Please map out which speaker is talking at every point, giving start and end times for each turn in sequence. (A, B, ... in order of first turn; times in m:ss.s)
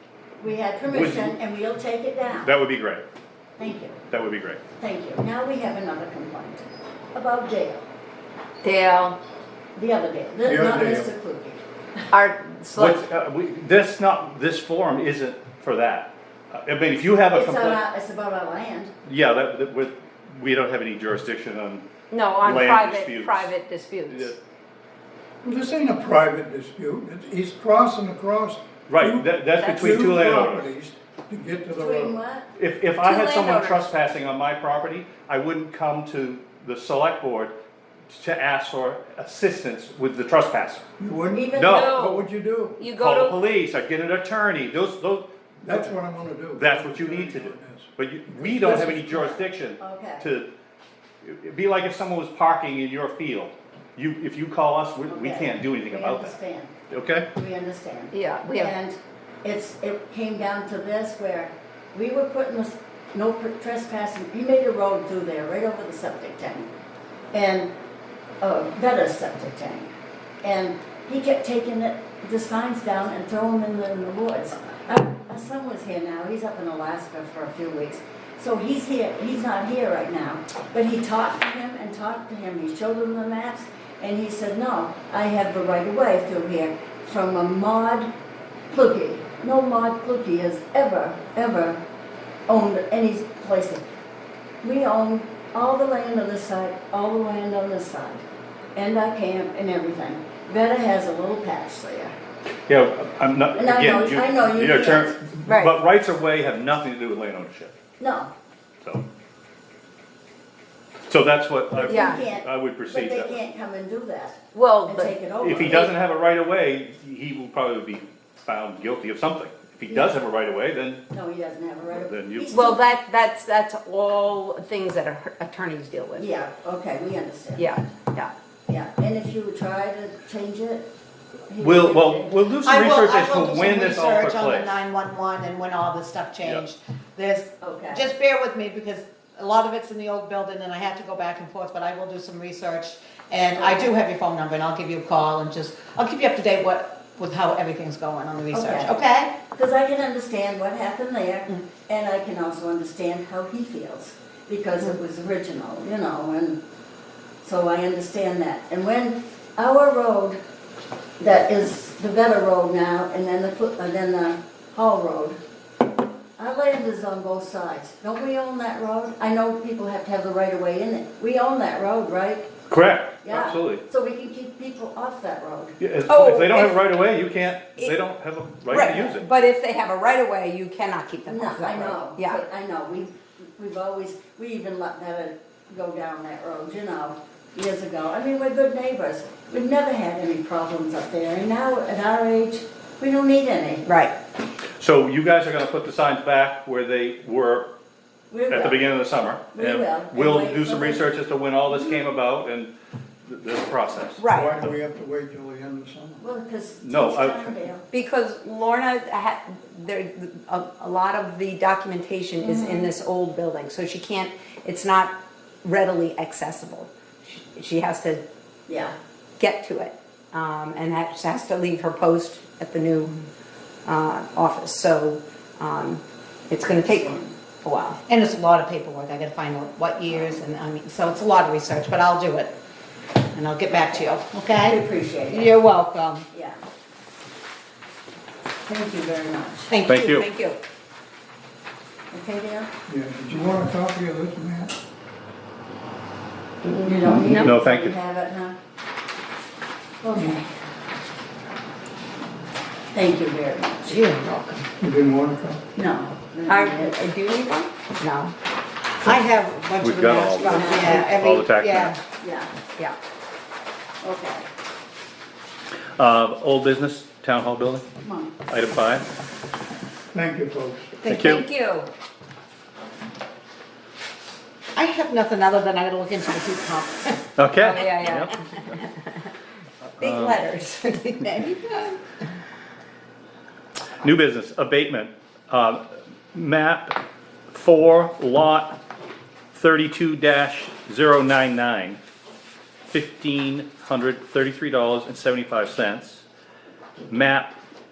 0:00.4-0:02.5 A
0:00.9-0:01.3 B
0:02.4-0:03.0 B
0:03.6-0:04.0 A
0:04.1-0:04.6 B
0:04.8-0:07.8 A
0:08.6-0:09.2 C
0:09.8-0:11.6 A
0:10.4-0:11.1 D
0:12.1-0:13.0 C
0:12.7-0:17.8 B
0:17.3-0:18.9 A
0:19.0-0:21.8 B
0:22.1-0:24.3 C
0:22.4-0:23.5 B
0:24.1-0:24.3 B
0:25.4-0:32.2 D
0:28.9-0:30.7 B
0:29.5-0:30.2 C
0:31.7-0:32.5 A
0:32.6-0:37.5 B
0:33.0-0:33.9 C
0:38.1-0:40.8 B
0:41.0-0:42.8 D
0:41.3-0:41.9 A
0:41.5-0:42.1 B
0:41.6-0:43.4 C
0:42.9-0:45.9 B
0:45.6-0:49.0 D
0:46.6-0:50.5 B
0:48.5-0:50.3 A
0:51.2-0:56.4 B
0:55.1-0:56.7 A
0:56.9-0:57.3 B
0:57.3-1:06.7 A
0:58.1-0:58.7 C
1:07.3-1:07.7 A
1:08.4-1:09.9 A
1:10.4-1:28.1 A
1:28.7-1:31.8 A
1:32.5-1:33.8 A
1:34.6-1:38.2 A
1:38.8-1:42.1 A
1:42.7-1:47.7 B
1:43.5-1:45.2 A
1:45.4-1:45.8 C
1:48.0-1:48.3 A
1:51.1-1:53.4 B
1:51.7-1:55.9 A
1:51.9-1:52.2 C
1:54.5-1:55.1 C
1:55.4-2:01.0 B
1:59.9-2:00.2 A
2:01.1-2:02.8 A
2:01.9-2:02.5 B
2:02.5-2:06.3 C
2:06.2-2:07.8 A
2:07.6-2:08.3 C
2:08.7-2:10.9 A
2:11.5-2:12.3 A
2:11.6-2:14.8 B
2:12.6-2:29.3 E
2:17.6-2:18.1 A
2:23.5-2:23.9 A
2:28.5-2:36.6 A
2:37.4-2:40.4 A
2:41.2-2:45.4 A
2:46.4-2:52.5 A
2:52.7-2:53.8 B
2:53.2-2:55.8 A
2:55.8-2:59.2 B
2:56.1-2:56.8 C
2:58.7-3:02.4 C
3:01.3-3:13.8 A
3:13.9-3:14.1 C
3:14.8-3:17.7 B
3:18.3-3:18.9 A
3:18.5-3:22.7 B
3:19.5-3:21.1 A
3:21.7-3:22.0 A
3:23.2-3:24.7 B
3:24.2-3:24.6 C
3:24.3-3:26.2 D
3:26.2-3:27.8 A
3:26.8-3:27.6 B
3:27.9-3:38.2 C
3:32.4-3:32.9 A
3:38.7-3:38.9 A
3:39.4-3:43.1 C
3:43.8-3:48.0 C
3:46.6-3:47.3 A
3:48.1-3:52.6 E
3:53.3-3:56.2 E
3:53.8-3:55.6 A
3:56.3-3:56.6 A
3:58.6-3:59.8 A
3:59.7-4:00.6 E
3:59.8-4:00.2 B
4:02.1-4:02.7 A
4:02.9-4:04.7 D
4:06.6-4:07.5 C
4:06.8-4:08.6 A
4:07.0-4:07.9 B
4:10.0-4:10.4 A
4:12.9-4:14.0 A
4:13.9-4:14.7 E
4:14.8-4:15.6 D
4:15.7-4:17.0 A
4:16.5-4:18.3 C
4:19.0-4:22.0 E
4:19.8-4:22.0 B
4:20.5-4:21.1 A
4:22.2-4:22.5 A
4:24.0-4:24.4 A
4:26.0-4:27.8 B
4:28.0-4:28.4 A
4:28.5-4:29.0 B
4:30.1-4:31.0 D
4:31.0-4:31.4 B
4:31.1-4:31.9 C
4:34.7-4:37.2 E
4:37.4-4:38.8 B
4:37.6-4:38.4 C
4:40.0-4:40.5 B
4:40.0-4:42.0 C
4:44.0-4:47.0 B
4:47.5-4:48.8 B
4:49.5-4:52.0 B
4:52.9-4:56.2 B
4:57.1-4:57.6 B